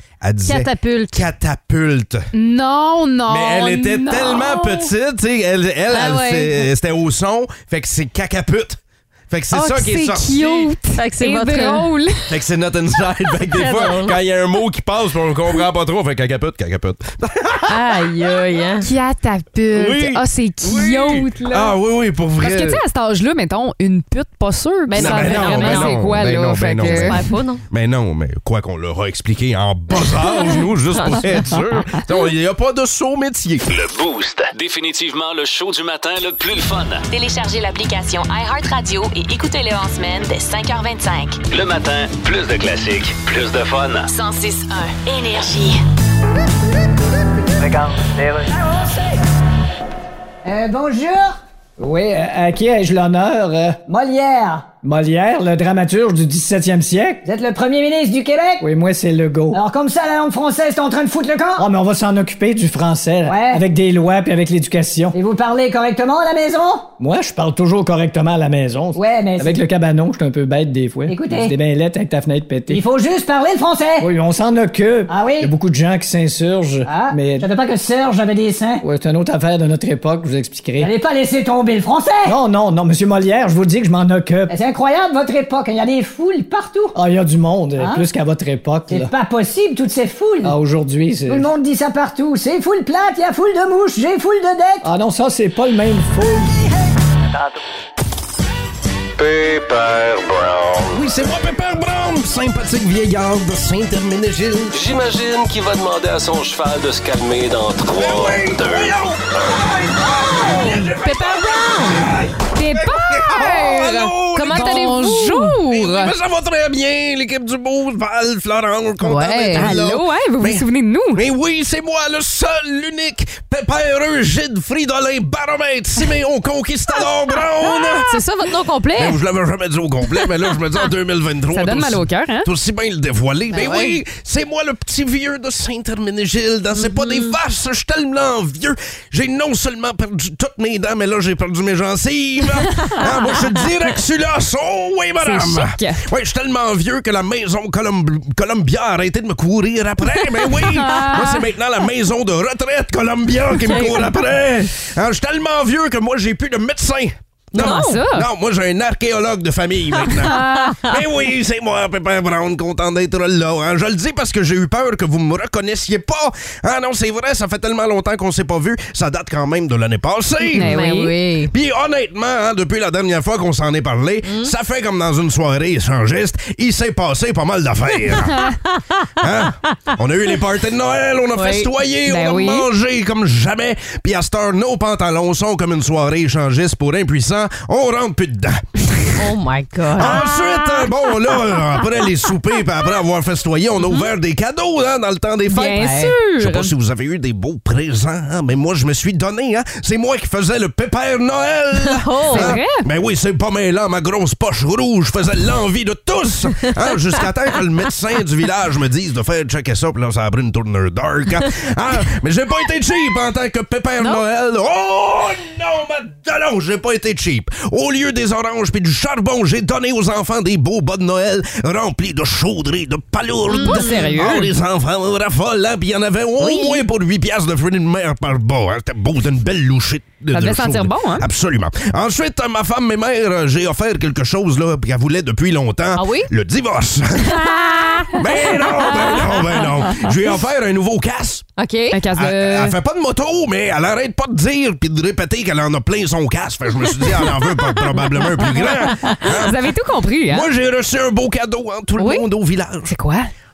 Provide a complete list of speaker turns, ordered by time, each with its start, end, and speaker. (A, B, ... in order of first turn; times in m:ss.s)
0:00.2-0:02.3 A
0:00.4-0:01.3 B
0:02.3-0:04.9 C
0:03.3-0:08.8 A
0:05.9-0:06.7 B
0:09.3-0:10.8 A
0:09.5-0:12.2 C
0:10.9-0:12.4 B
0:12.3-0:17.8 A
0:13.4-0:14.2 B
0:17.6-0:18.9 B
0:18.8-0:21.8 C
0:19.7-0:22.8 A
0:22.4-0:27.2 C
0:24.9-0:26.0 B
0:25.0-0:33.6 A
0:26.8-0:27.6 B
0:30.0-0:31.8 B
0:33.7-0:37.0 D
0:37.1-0:41.4 E
0:41.5-0:44.1 D
0:44.1-0:45.8 E
0:47.6-0:49.1 F
0:50.4-0:51.4 F
0:51.8-0:53.8 G
0:53.9-0:54.7 F
0:54.8-0:57.2 G
0:57.2-0:58.6 F
0:58.6-0:59.6 G
0:59.5-1:01.6 F
1:01.6-1:05.1 G
1:03.2-1:03.6 F
1:05.1-1:06.9 F
1:07.0-1:12.8 G
1:08.9-1:09.6 F
1:11.1-1:11.6 F
1:12.7-1:14.1 F
1:14.0-1:17.5 G
1:15.1-1:15.5 F
1:16.8-1:18.8 F
1:18.8-1:20.9 G
1:20.8-1:22.3 F
1:22.2-1:24.5 G
1:24.5-1:27.0 F
1:26.9-1:29.1 G
1:28.9-1:30.5 F
1:30.4-1:31.5 G
1:31.3-1:34.8 F
1:34.8-1:36.6 G
1:37.3-1:37.6 F
1:39.2-1:41.0 D
1:40.9-1:44.8 A
1:44.7-1:49.5 D
1:48.0-1:55.0 A
1:50.5-1:52.1 B
1:52.5-1:56.1 C
1:54.4-1:55.6 B
1:55.6-2:08.2 A
1:59.0-2:01.2 C
2:07.6-2:09.2 B
2:08.9-2:50.7 A
2:10.2-2:10.5 B
2:11.5-2:12.5 C
2:13.5-2:14.0 B
2:16.8-2:17.3 B
2:25.2-2:26.0 C
2:30.6-2:31.4 C
2:33.6-2:34.1 B
2:33.7-2:34.0 C
2:37.5-2:38.1 B
2:37.6-2:38.3 C
2:40.0-2:40.4 B
2:40.2-2:40.8 C
2:50.4-2:51.5 B
2:50.5-2:51.1 C
2:51.5-2:58.5 A
2:54.2-2:54.5 B
2:58.2-2:58.5 C
2:59.2-3:09.3 A
3:01.3-3:01.7 B
3:02.0-3:02.7 C
3:09.2-3:12.4 B
3:09.9-3:57.4 A
3:15.5-3:16.7 C
3:15.6-3:16.2 B
3:21.8-3:22.6 B
3:22.3-3:22.9 C
3:26.6-3:26.9 B
3:43.5-3:44.5 C
3:43.6-3:44.0 B
3:46.4-3:46.8 B
3:50.3-3:51.3 C
3:55.9-3:56.3 B
3:57.4-3:59.0 B
3:58.2-4:01.4 A
4:01.6-4:02.0 B
4:01.9-4:02.8 C
4:02.1-4:09.6 A
4:09.0-4:10.5 C
4:10.3-4:12.9 A
4:12.8-4:13.3 C